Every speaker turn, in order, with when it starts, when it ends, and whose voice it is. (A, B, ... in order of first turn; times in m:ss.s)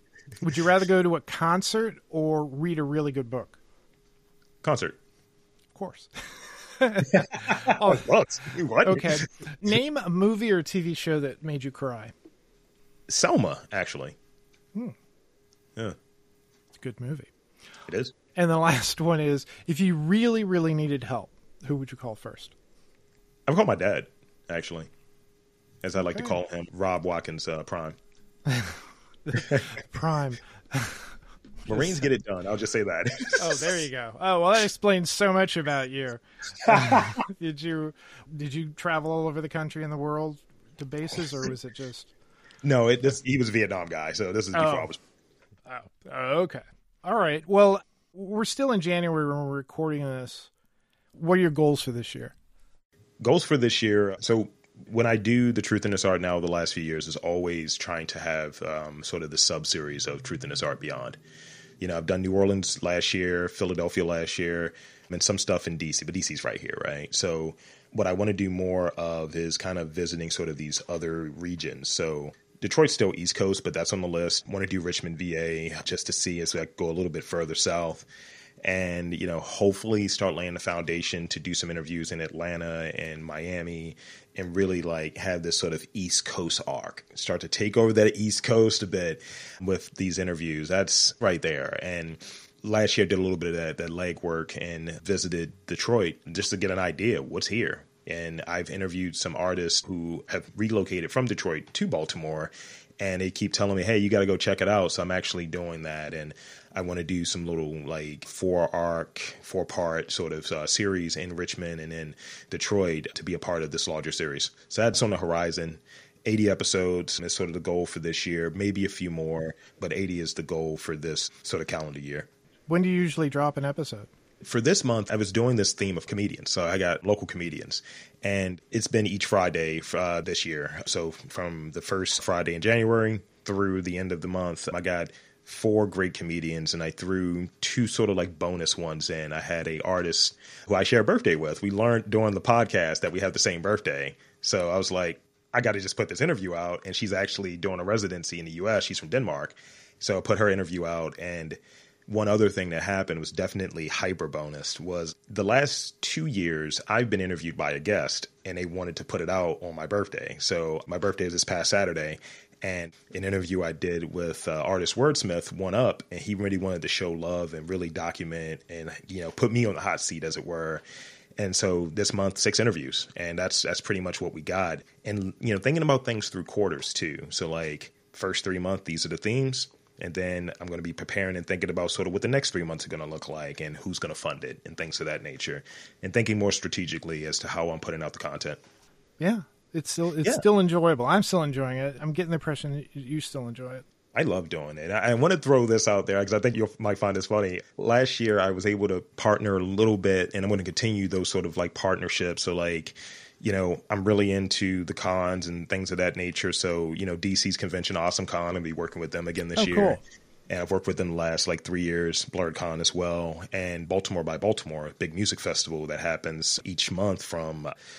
0:00.4-0:03.6 A
0:04.6-0:05.0 B
0:05.7-0:08.0 A
0:07.1-0:09.3 B
0:08.8-0:12.1 A
0:13.1-0:14.2 B
0:16.8-0:17.3 A
0:17.9-0:18.1 B
0:18.3-0:22.5 A
0:23.5-0:24.9 B
0:25.8-0:28.0 B
0:26.0-0:26.4 A
0:28.4-0:31.1 A
0:31.7-0:32.1 A
0:31.7-0:33.8 B
0:33.4-0:42.1 A
0:36.6-0:37.2 B
0:42.6-0:45.0 B
0:44.5-0:44.9 A
0:45.7-0:50.5 A
0:51.1-0:52.3 A
0:53.2-1:01.2 B
1:01.8-1:18.1 B
1:18.6-2:02.3 B
2:02.7-2:04.1 A
2:04.4-2:50.8 B
2:51.4-3:08.6 B
3:09.2-3:13.8 A
3:14.1-3:37.7 B
3:29.6-3:30.0 A